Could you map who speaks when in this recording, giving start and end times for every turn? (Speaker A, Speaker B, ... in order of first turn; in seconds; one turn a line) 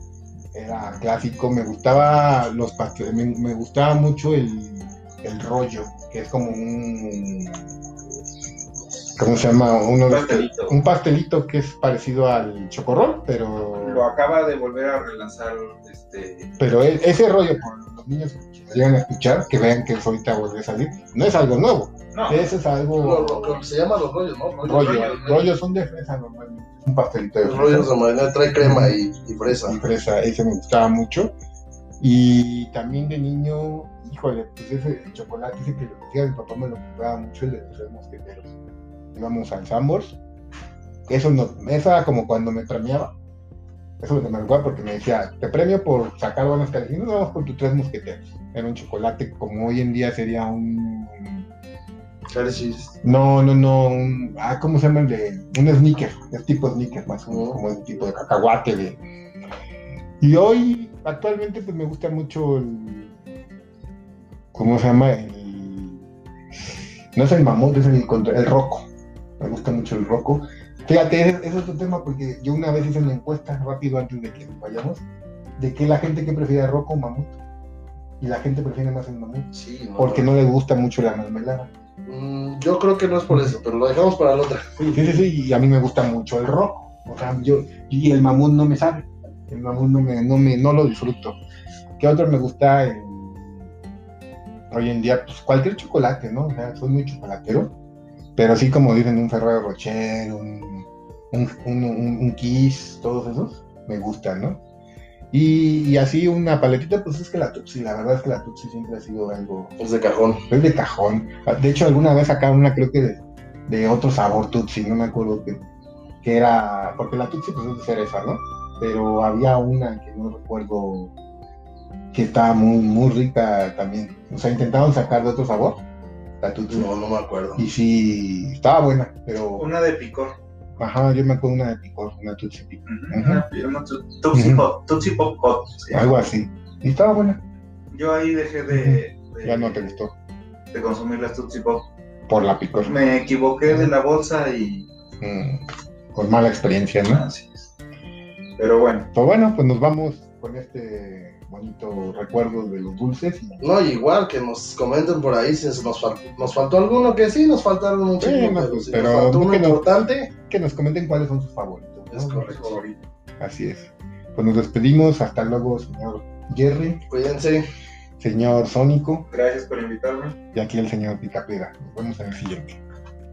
Speaker A: 0.5-7.6
Speaker A: 9.2-14.1
Speaker B: 10.1-10.8
Speaker B: 13.7-16.5
Speaker A: 16.6-23.6
Speaker B: 22.1-22.5
Speaker C: 23.0-25.4
Speaker A: 24.6-27.9
Speaker B: 24.8-25.1
Speaker C: 27.4-29.8
Speaker A: 28.6-29.0
Speaker A: 29.6-31.3
Speaker A: 32.0-38.5
Speaker A: 39.1-40.2
Speaker A: 41.1-43.1
Speaker A: 44.0-51.4
Speaker C: 52.3-52.9
Speaker A: 53.0-59.0
Speaker C: 57.3-57.6
Speaker A: 60.2-63.1
Speaker A: 64.5-66.0
Speaker A: 67.1-68.8
Speaker A: 69.4-75.0
Speaker A: 75.6-77.3
Speaker A: 78.2-81.7
Speaker C: 79.5-80.3
Speaker C: 82.1-85.1
Speaker A: 84.9-91.4
Speaker A: 92.0-93.7
Speaker A: 94.7-97.7
Speaker A: 98.3-104.6
Speaker A: 105.3-109.7
Speaker C: 109.8-110.4
Speaker A: 110.5-115.6
Speaker A: 116.2-121.1
Speaker A: 122.1-125.8
Speaker A: 126.4-126.9
Speaker C: 126.7-127.6
Speaker A: 127.6-129.7
Speaker B: 129.6-130.4
Speaker A: 130.8-133.4
Speaker B: 132.9-136.1
Speaker A: 134.3-134.7
Speaker A: 135.9-137.4
Speaker B: 137.9-140.0
Speaker A: 138.7-140.1
Speaker B: 140.7-141.9
Speaker A: 142.3-142.9
Speaker B: 142.8-144.9
Speaker A: 143.7-143.9
Speaker A: 145.2-147.2
Speaker B: 147.0-147.7
Speaker B: 148.6-149.1
Speaker A: 149.1-153.6
Speaker C: 153.6-160.3
Speaker A: 158.2-162.6
Speaker C: 162.1-162.8
Speaker B: 162.4-162.9
Speaker A: 163.4-167.0
Speaker C: 167.1-167.7
Speaker A: 168.2-169.3
Speaker B: 169.3-170.4
Speaker A: 170.5-172.8